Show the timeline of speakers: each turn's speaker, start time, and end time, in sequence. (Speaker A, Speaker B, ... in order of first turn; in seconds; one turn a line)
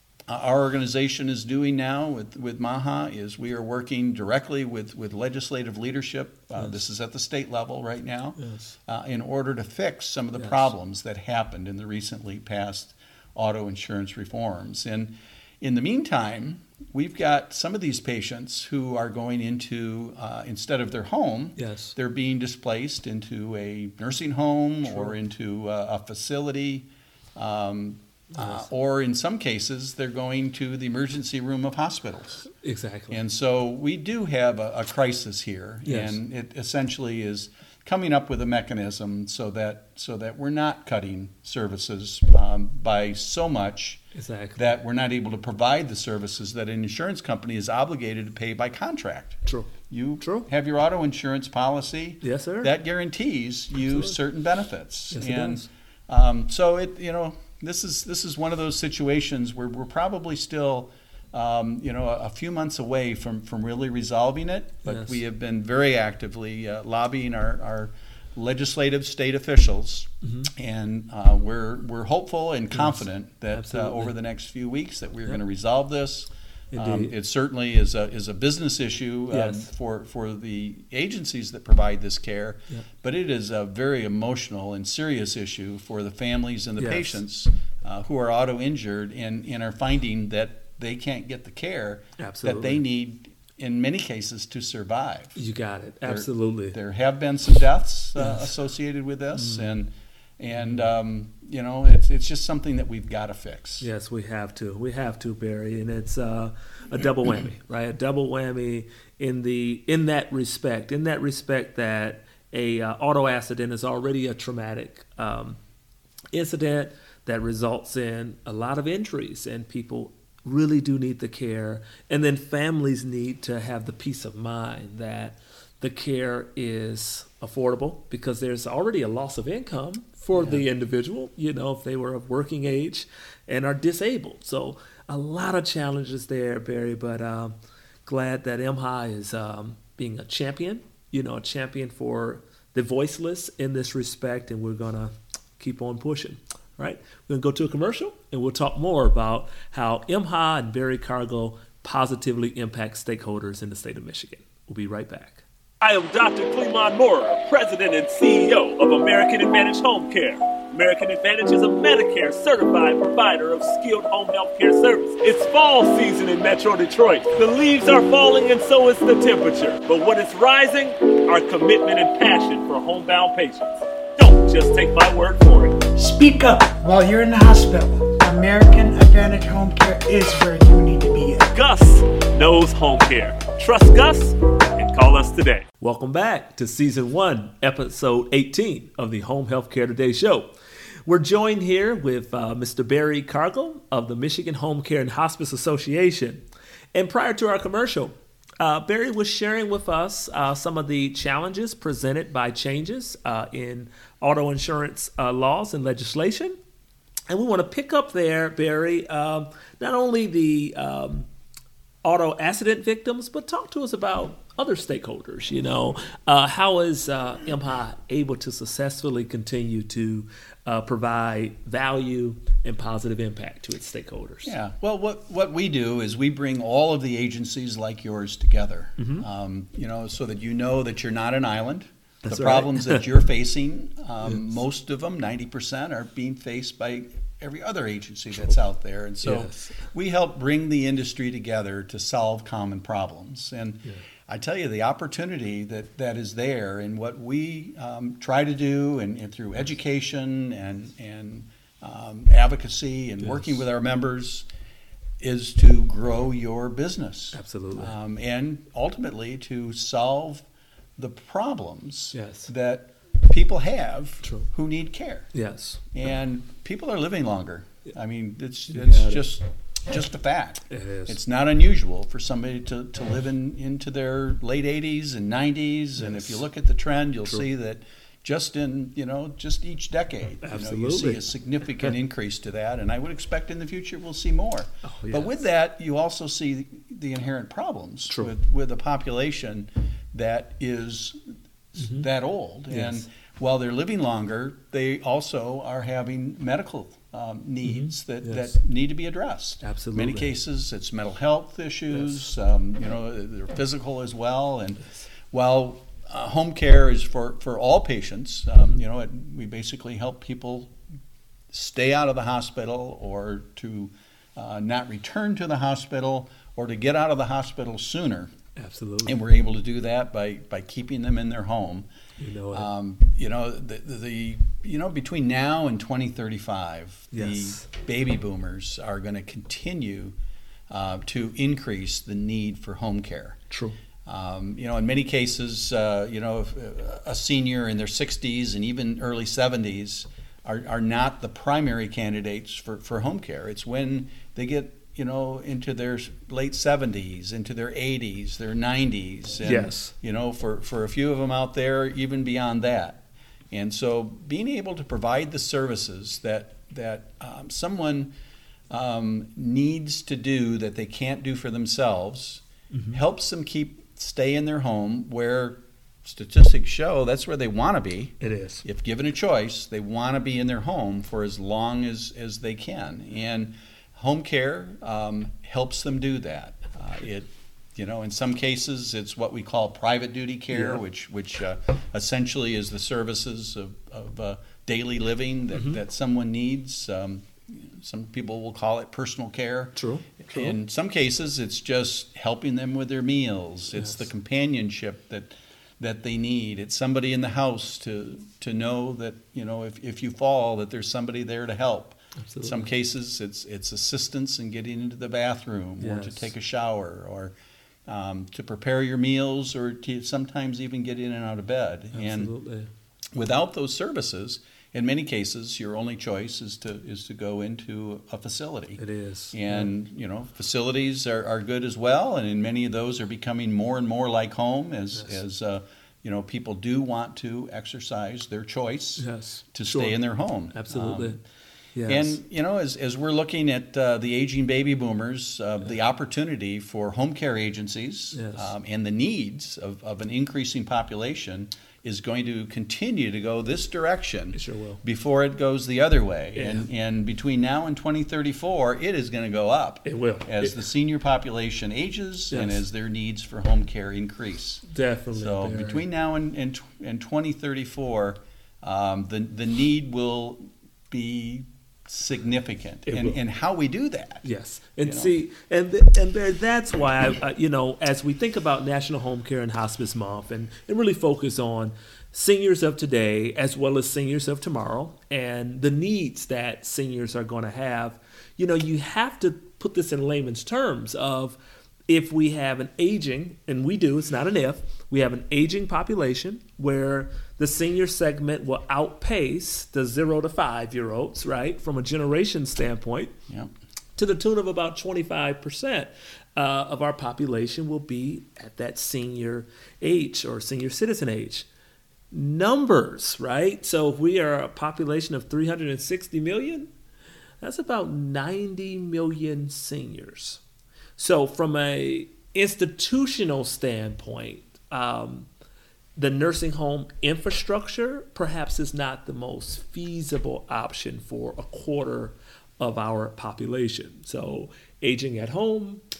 Speaker A: 0.3-32.5
Speaker B: 8.4-8.7
Speaker B: 10.4-10.7
Speaker B: 21.6-21.9
Speaker B: 28.3-28.6
Speaker B: 32.5-33.2
Speaker A: 33.1-44.0
Speaker B: 35.8-36.2
Speaker B: 44.1-44.7
Speaker A: 44.5-95.4
Speaker B: 49.5-50.5
Speaker B: 52.2-52.7
Speaker B: 53.9-54.1
Speaker B: 55.1-55.7
Speaker B: 64.8-65.2
Speaker B: 70.2-70.5
Speaker B: 72.7-74.1
Speaker B: 76.7-77.1
Speaker B: 79.3-79.7
Speaker B: 86.8-87.2
Speaker B: 92.2-92.8
Speaker B: 95.3-96.8
Speaker A: 96.0-103.9
Speaker B: 98.2-98.5
Speaker B: 99.3-99.7
Speaker B: 100.5-100.8
Speaker B: 103.8-115.6
Speaker B: 116.3-137.5
Speaker A: 130.3-130.6
Speaker B: 138.0-175.8
Speaker C: 175.9-181.5
Speaker B: 181.5-190.5
Speaker B: 191.0-196.4
Speaker B: 196.9-206.6
Speaker B: 207.3-211.3
Speaker B: 212.0-224.6
Speaker A: 224.4-254.5
Speaker B: 229.0-229.2
Speaker B: 232.2-233.0
Speaker B: 239.2-239.8
Speaker B: 253.2-253.5
Speaker A: 255.2-260.4
Speaker B: 257.3-257.9
Speaker A: 261.0-265.3
Speaker B: 262.1-262.5
Speaker B: 264.2-264.5
Speaker B: 265.3-265.8
Speaker A: 265.9-291.2
Speaker B: 268.7-269.3
Speaker B: 270.7-271.2
Speaker B: 276.0-276.4
Speaker B: 280.4-281.2
Speaker B: 284.8-285.4
Speaker A: 291.7-310.7
Speaker B: 291.8-292.1
Speaker B: 292.7-293.1
Speaker B: 297.6-298.5
Speaker B: 299.6-300.3
Speaker A: 311.5-318.3
Speaker B: 318.6-319.2
Speaker A: 319.0-321.9
Speaker B: 322.2-322.7
Speaker A: 322.5-330.1
Speaker B: 327.1-327.7
Speaker A: 330.7-333.4
Speaker B: 333.5-333.8
Speaker A: 334.1-358.1
Speaker B: 349.4-349.9
Speaker A: 358.7-407.3
Speaker B: 362.7-363.0
Speaker B: 368.2-368.6
Speaker B: 380.5-380.8
Speaker B: 389.8-390.6
Speaker B: 402.2-402.7
Speaker B: 405.8-406.3
Speaker A: 407.9-412.3
Speaker B: 411.9-412.7
Speaker A: 413.1-418.8
Speaker B: 418.8-419.7
Speaker A: 419.3-431.2
Speaker B: 429.0-429.9
Speaker B: 430.5-431.2
Speaker B: 431.7-432.2
Speaker A: 431.9-464.2
Speaker B: 438.1-438.5
Speaker B: 444.3-444.8
Speaker B: 446.4-446.7
Speaker B: 449.8-450.6
Speaker B: 452.3-452.6
Speaker B: 454.7-455.8
Speaker B: 462.9-463.2
Speaker B: 464.2-493.1
Speaker A: 464.8-465.1
Speaker B: 494.0-501.4
Speaker B: 502.1-506.7
Speaker B: 507.4-510.4
Speaker B: 511.0-515.3
Speaker B: 516.0-525.8